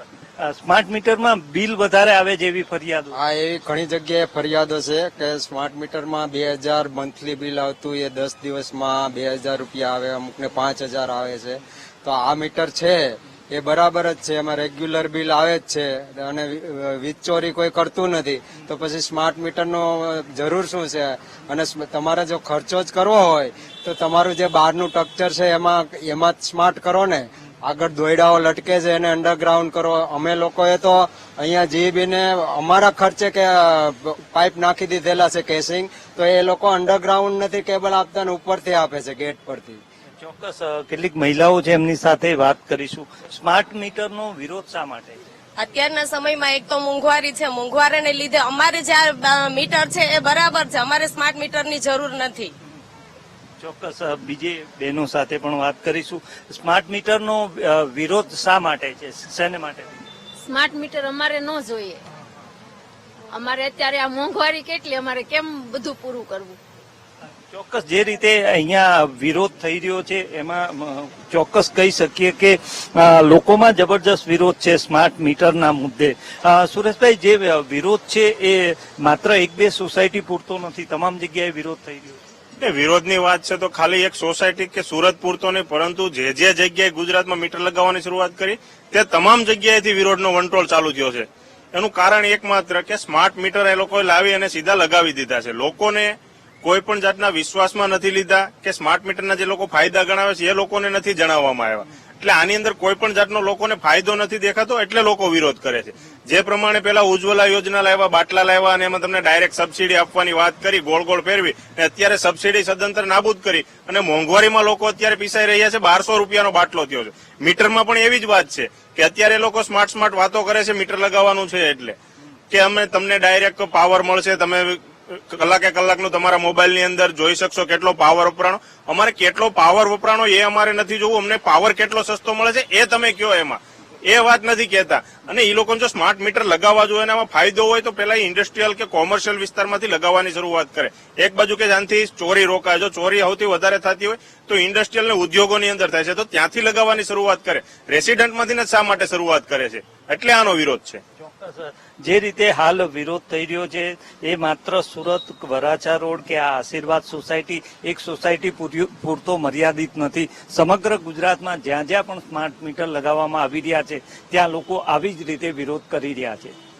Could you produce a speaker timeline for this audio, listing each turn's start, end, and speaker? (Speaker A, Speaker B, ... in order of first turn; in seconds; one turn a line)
Speaker A: 0.4-3.1
Speaker B: 3.1-39.8
Speaker A: 40.2-45.2
Speaker C: 45.6-52.5
Speaker A: 53.6-59.9
Speaker D: 60.4-62.0
Speaker D: 63.3-66.6
Speaker A: 67.5-82.2
Speaker E: 82.6-122.0
Speaker E: 122.5-151.0
Speaker A: 151.2-166.5